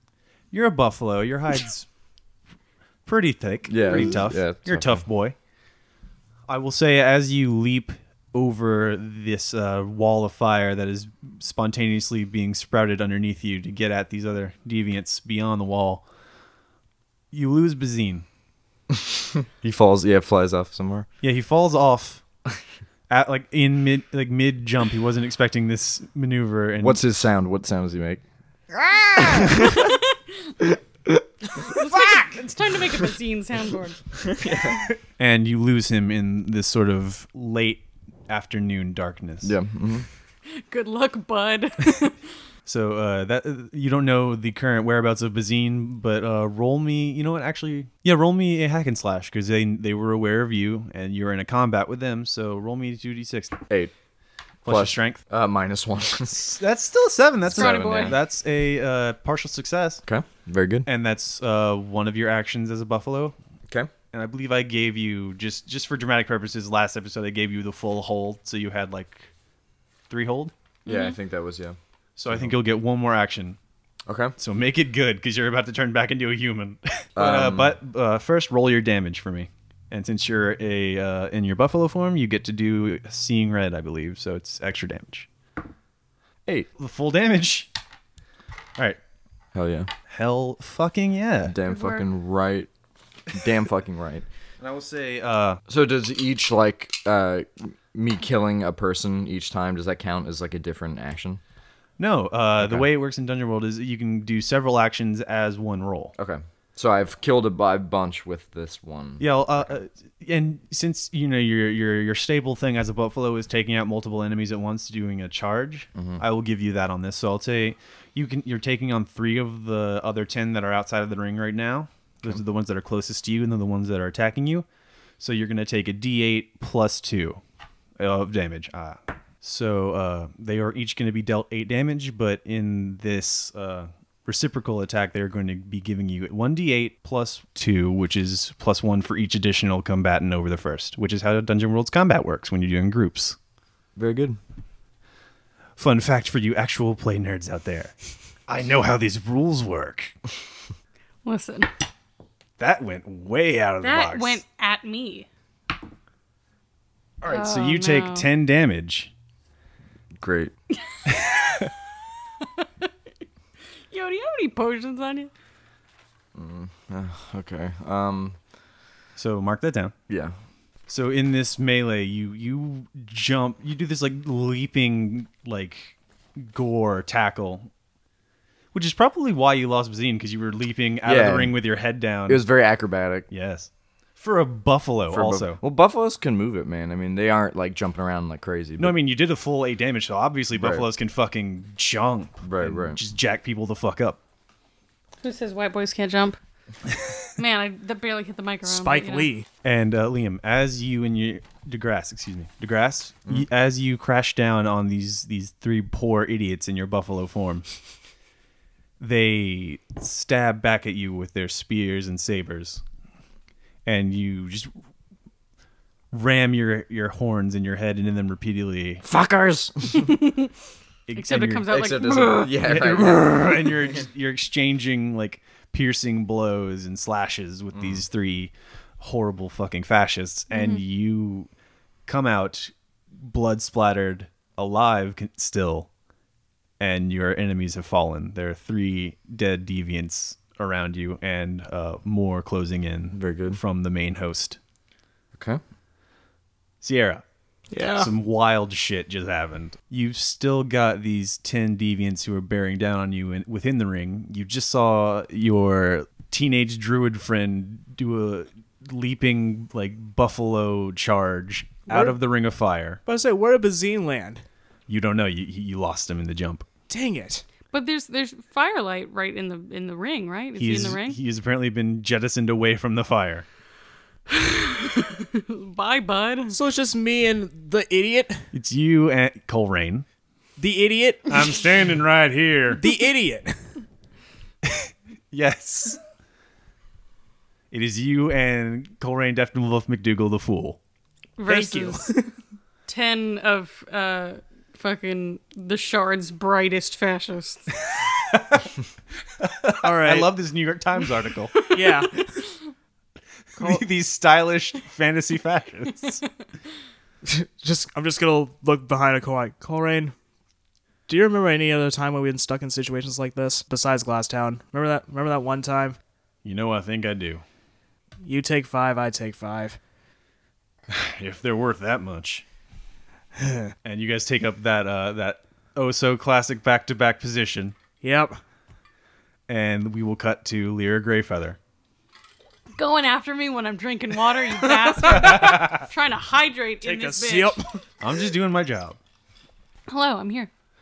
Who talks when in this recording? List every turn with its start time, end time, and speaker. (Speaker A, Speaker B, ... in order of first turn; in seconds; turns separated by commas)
Speaker A: 0.5-1.9, Speaker A: 3.1-5.4, Speaker B: 3.7-5.0, Speaker A: 6.5-16.1, Speaker A: 17.3-18.3, Speaker B: 18.9-21.1, Speaker A: 21.2-22.2, Speaker A: 23.1-27.0, Speaker B: 26.8-29.9, Speaker C: 31.6-34.0, Speaker A: 31.9-32.4, Speaker B: 34.2-34.9, Speaker A: 35.2-39.5, Speaker B: 39.4-40.1, Speaker C: 40.6-42.2, Speaker A: 42.7-53.6, Speaker A: 54.6-55.2, Speaker B: 54.7-56.6, Speaker A: 56.6-60.0, Speaker B: 57.5-58.2, Speaker C: 57.5-58.2, Speaker B: 60.0-60.9, Speaker A: 60.9-63.4, Speaker A: 64.1-69.3, Speaker A: 70.1-70.5, Speaker C: 70.9-71.2, Speaker B: 70.9-71.8, Speaker A: 72.2-73.6, Speaker B: 74.1-74.3, Speaker A: 74.4-85.3, Speaker B: 77.2-77.8, Speaker A: 86.8-87.7, Speaker B: 89.5-89.9, Speaker A: 90.1-91.5, Speaker B: 91.5-92.7, Speaker C: 91.7-92.0, Speaker B: 93.3-94.2, Speaker A: 94.6-95.6, Speaker B: 95.7-101.4, Speaker A: 102.0-106.1, Speaker B: 102.6-102.9, Speaker B: 106.2-109.7, Speaker A: 109.2-124.7, Speaker B: 116.0-116.2, Speaker A: 125.2-127.4, Speaker A: 128.0-143.4, Speaker B: 144.0-144.4, Speaker A: 145.8-147.9, Speaker A: 148.5-150.2, Speaker C: 151.2-151.7, Speaker A: 152.6-154.4, Speaker C: 153.8-155.3, Speaker A: 157.2-159.1, Speaker C: 157.2-158.3, Speaker B: 160.2-160.5, Speaker C: 161.1-161.7, Speaker A: 161.1-161.7, Speaker C: 162.4-162.9, Speaker C: 163.9-165.3, Speaker B: 166.3-168.4, Speaker A: 169.2-169.9, Speaker B: 170.1-170.3, Speaker A: 170.9-177.7, Speaker A: 178.7-182.4, Speaker B: 181.1-181.6, Speaker B: 182.3-183.3, Speaker A: 183.3-185.6, Speaker B: 185.1-189.0, Speaker A: 188.8-194.2, Speaker B: 190.6-190.9, Speaker B: 192.4-193.0, Speaker C: 195.2-196.4, Speaker C: 197.4-199.3, Speaker D: 198.7-199.5, Speaker A: 199.6-207.7, Speaker A: 209.0-212.8, Speaker A: 213.9-214.7, Speaker A: 216.1-219.0, Speaker B: 219.0-220.1, Speaker C: 219.9-220.5, Speaker A: 221.1-221.7, Speaker C: 221.2-222.6, Speaker B: 221.7-224.0, Speaker A: 222.6-231.5, Speaker B: 227.7-228.0, Speaker C: 230.5-230.8, Speaker A: 232.1-235.9, Speaker A: 236.8-244.6, Speaker B: 243.1-243.6, Speaker B: 245.3-245.6, Speaker A: 246.8-247.2, Speaker D: 247.7-248.1, Speaker A: 247.9-263.0, Speaker D: 261.9-262.2, Speaker D: 263.1-264.4, Speaker A: 264.9-266.7, Speaker D: 266.9-267.4, Speaker C: 267.7-271.2, Speaker A: 270.6-273.4, Speaker C: 274.3-276.6, Speaker D: 276.5-278.5, Speaker A: 278.5-280.1, Speaker D: 280.6-281.6, Speaker A: 281.3-282.8, Speaker D: 282.8-283.7, Speaker A: 284.6-286.0, Speaker A: 287.7-290.8, Speaker C: 291.4-292.2, Speaker D: 291.5-292.3, Speaker C: 292.9-297.8, Speaker A: 298.3-298.7, Speaker A: 299.4-301.6, Speaker D: 299.8-300.3, Speaker D: 301.7-302.3, Speaker A: 303.6-306.2, Speaker D: 303.6-303.8, Speaker D: 307.2-310.1, Speaker D: 311.1-316.0, Speaker A: 316.4-317.4, Speaker D: 318.2-319.8, Speaker A: 320.9-322.4, Speaker D: 323.4-323.7, Speaker A: 323.8-327.8, Speaker D: 328.0-328.4, Speaker A: 329.5-331.6, Speaker C: 332.8-337.6, Speaker D: 335.0-335.3, Speaker A: 335.2-335.8, Speaker D: 336.8-337.8, Speaker A: 338.0-339.0, Speaker C: 339.9-340.5